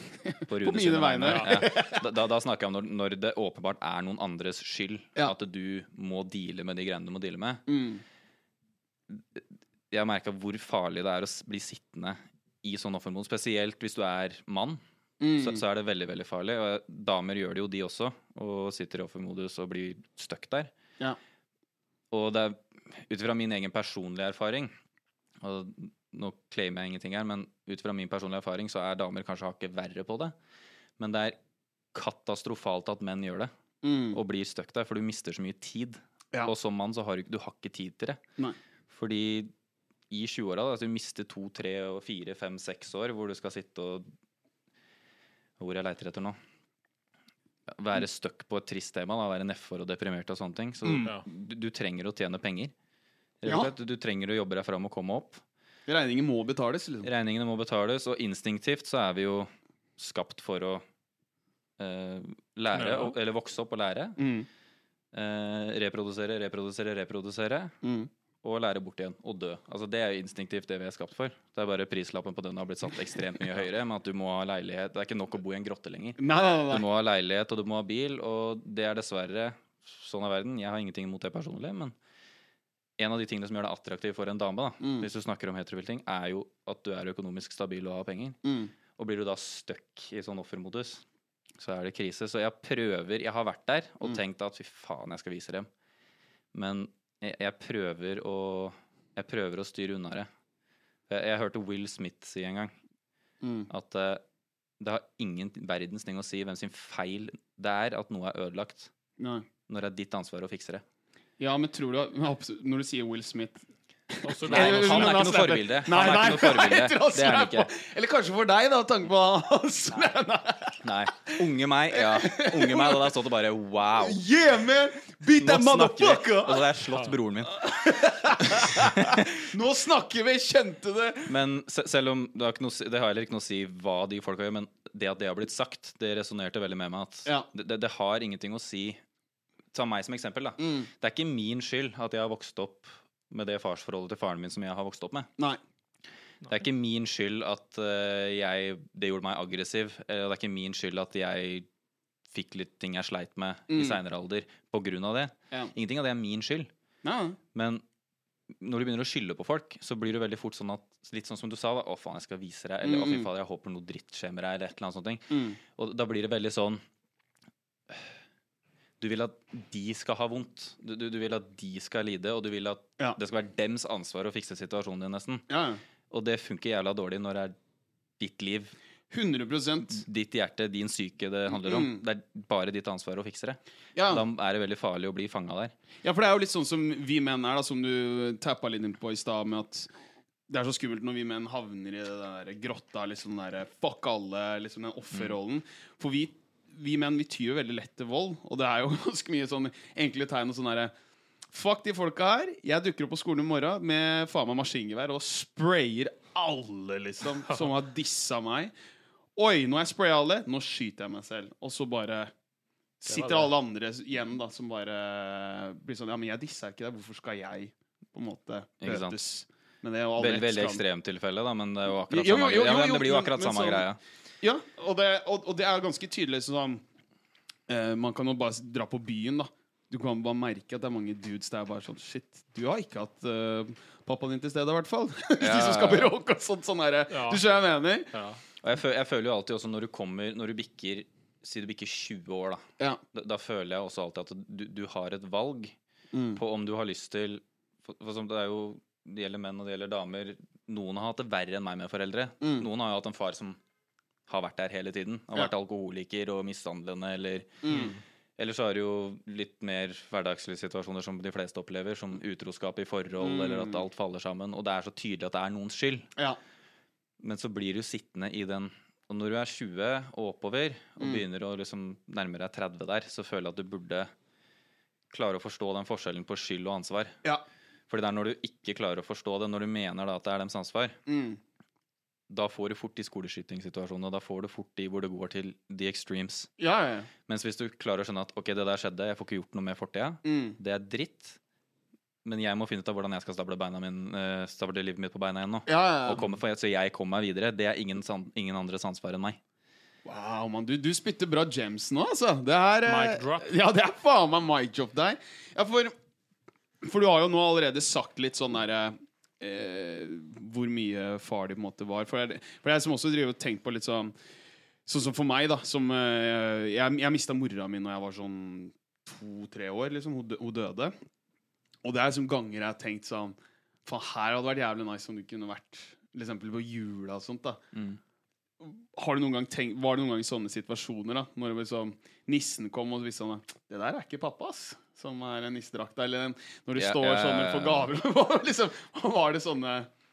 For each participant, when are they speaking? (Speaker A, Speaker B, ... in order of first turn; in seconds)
Speaker A: 0.4-7.7, 9.1-14.8, 15.4-20.7, 22.1-24.7, 25.4-30.3, 31.0-31.4, 31.9-33.5, 34.1-38.2, 38.9-39.5, 40.1-44.1, 45.6-46.4, 47.7-52.7, 53.4-55.4, 57.0-60.9, 61.8-64.2, 65.1-67.8, 68.4-81.9, 83.0-88.4, 89.0-91.0, 91.6-95.7, 96.5-100.3, 101.1-102.7, 103.7-104.2, 104.8-108.9, 109.7-110.8, 114.5-117.7, 120.8-124.2, 125.4-129.4, 131.3-139.0, 139.7-145.3, 146.5-151.7, 152.3-156.7, 157.5-157.8, 158.6-166.8, 169.0-175.4, 176.1-177.6, 178.2-178.8, 179.9-185.7, 218.8-219.2, 220.2-224.0, 235.4-236.1, 238.6-245.8, 246.3-253.6, 254.3-266.1, 267.2-274.1, 275.1-277.2, 277.9-281.0, 282.3-286.5, 287.3-291.4, 292.2-299.4, 327.7-328.0, 336.8-337.9
Speaker B: 0.5-2.1, 7.7-8.0, 15.2-15.6, 33.8-34.2, 50.8-51.1, 53.5-53.7, 55.9-57.1, 64.2-64.5, 67.8-68.1, 76.2-76.8, 84.8-85.1, 88.4-88.7, 103.4-103.7, 109.2-109.5, 111.4-120.8, 121.9-123.2, 124.0-126.7, 127.5-131.3, 140.6-140.9, 153.7-154.0, 157.0-157.4, 162.8-163.3, 165.3-165.6, 175.5-175.8, 179.1-180.0, 181.5-182.0, 183.9-184.2, 186.0-189.9, 190.5-200.9, 201.5-208.7, 209.4-212.3, 213.0-220.8, 222.1-223.9, 224.4-226.8, 227.7-238.1, 246.1-246.4, 252.4-252.7, 257.6-257.9, 263.2-263.8, 281.1-281.4, 286.6-287.1, 290.2-290.6, 295.7-296.2, 300.1-305.9, 306.8-314.1, 314.9-320.9, 321.8-327.6, 328.6-339.9
Speaker C: 1.2-1.6, 62.7-63.1, 114.2-115.5, 213.1-213.5, 237.1-237.4, 238.1-238.4, 257.7-258.0, 302.9-303.5